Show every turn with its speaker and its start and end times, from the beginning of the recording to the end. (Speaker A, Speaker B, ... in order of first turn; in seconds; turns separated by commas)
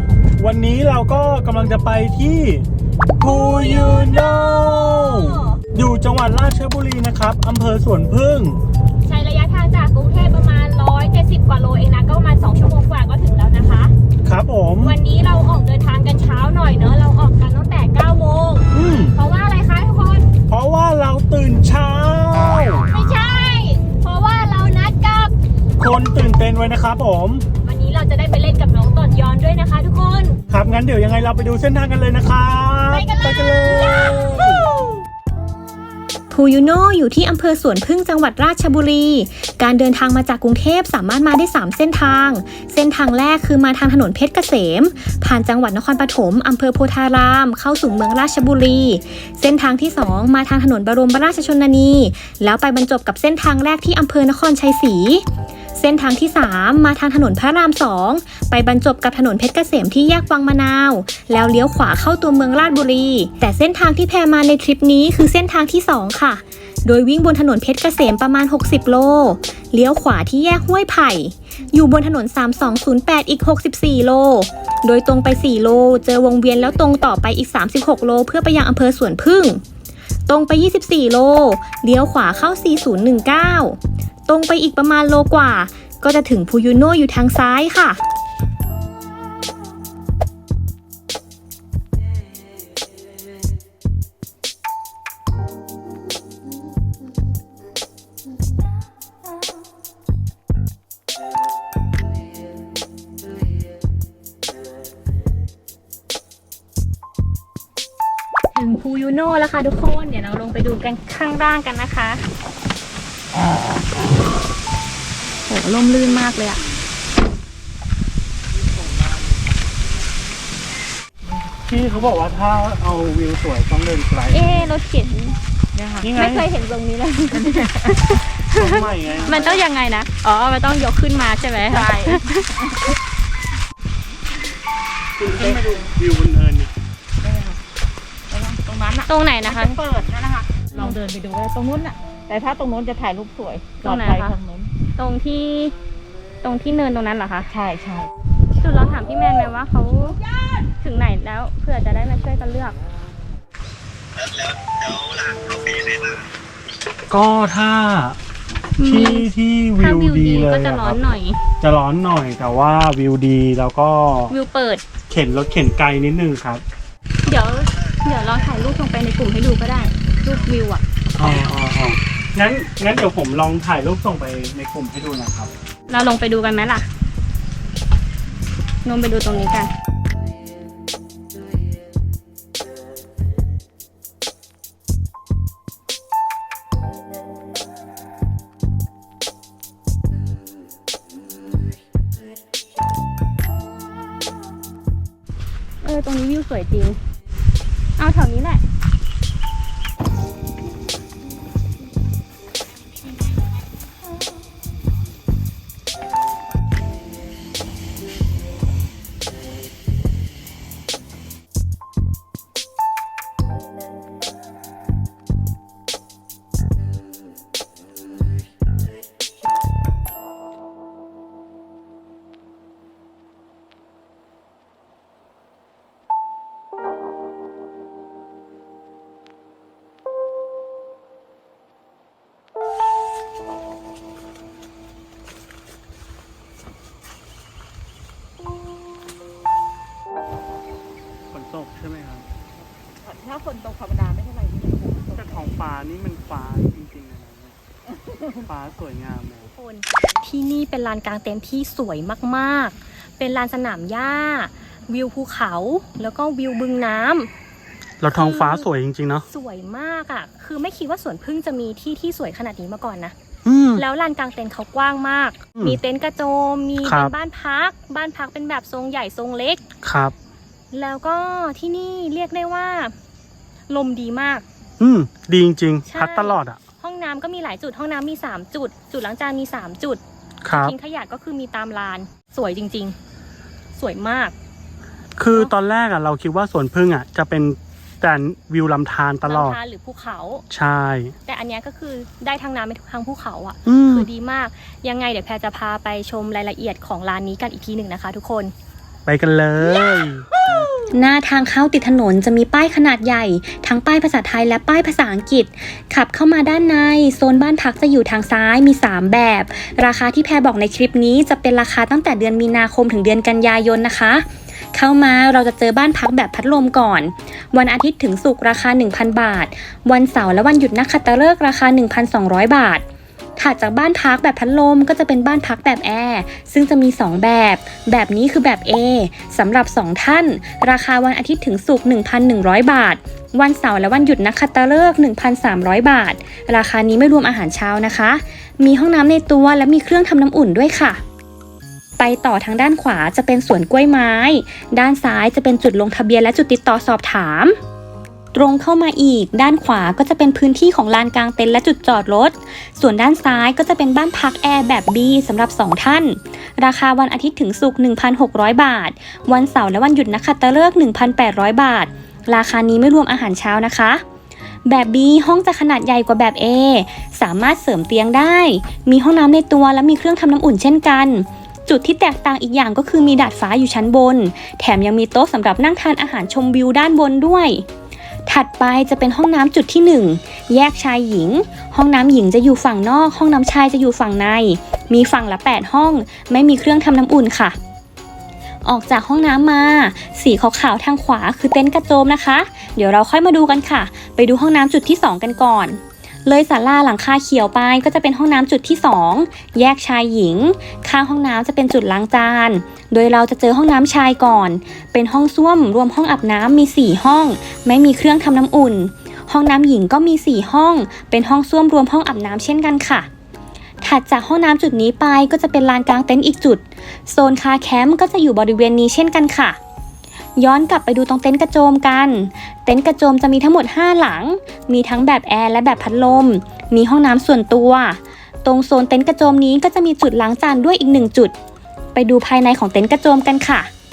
Speaker A: 0.4-2.7, Speaker A: 3.2-8.6, Speaker B: 3.3-4.0, Speaker C: 9.1-13.7, Speaker A: 14.2-15.0, Speaker B: 14.8-18.6, Speaker A: 18.7-19.2, Speaker B: 19.2-20.3, Speaker A: 20.5-22.9, Speaker B: 22.9-25.3, Speaker A: 25.8-27.4, Speaker B: 27.7-30.4, Speaker A: 30.5-34.7, Speaker B: 32.9-34.4, Speaker B: 36.3-55.2, Speaker B: 55.8-79.6, Speaker B: 80.3-88.0, Speaker B: 108.5-112.2, Speaker B: 115.5-116.6, Speaker A: 121.7-124.8, Speaker B: 124.3-125.4, Speaker D: 125.7-126.1, Speaker A: 126.0-126.5, Speaker B: 126.1-132.5, Speaker D: 127.3-128.0, Speaker A: 128.5-129.6, Speaker D: 131.6-132.9, Speaker A: 135.2-136.7, Speaker D: 135.4-135.8, Speaker D: 137.2-137.6, Speaker D: 138.3-144.7, Speaker B: 139.1-139.8, Speaker B: 140.7-141.0, Speaker B: 143.8-144.4, Speaker B: 144.9-145.8, Speaker B: 146.4-147.5, Speaker D: 147.5-148.1, Speaker B: 148.6-150.2, Speaker B: 150.8-152.8, Speaker A: 157.1-158.2, Speaker B: 158.8-161.4, Speaker A: 158.8-161.1, Speaker A: 161.6-164.3, Speaker B: 164.3-164.8, Speaker A: 165.1-166.6, Speaker B: 167.2-170.8, Speaker A: 171.2-175.5, Speaker B: 175.9-176.9, Speaker B: 178.8-179.7, Speaker B: 195.8-197.0, Speaker B: 198.0-198.6, Speaker A: 241.3-242.3, Speaker D: 243.0-245.5, Speaker A: 245.1-247.6, Speaker D: 247.9-248.5, Speaker A: 248.5-249.5, Speaker B: 249.6-257.3, Speaker A: 258.0-259.3, Speaker B: 258.1-258.7, Speaker B: 259.3-263.1, Speaker A: 263.4-263.8, Speaker B: 263.8-269.6, Speaker A: 266.8-267.1, Speaker A: 269.8-270.1, Speaker B: 270.7-272.9, Speaker B: 273.7-274.4, Speaker A: 274.8-276.6, Speaker B: 275.9-283.0, Speaker A: 280.4-280.8, Speaker B: 283.8-284.3, Speaker A: 285.2-289.6, Speaker B: 289.3-290.4, Speaker A: 290.5-291.1, Speaker B: 291.3-298.5, Speaker A: 293.7-294.1, Speaker A: 299.1-300.2, Speaker B: 300.9-322.8, Speaker B: 323.4-341.0, Speaker B: 342.0-347.6, Speaker B: 348.3-364.0, Speaker B: 364.7-377.7, Speaker B: 378.3-387.6, Speaker B: 388.6-413.1, Speaker B: 413.8-419.6, Speaker B: 420.4-431.3, Speaker B: 431.9-433.7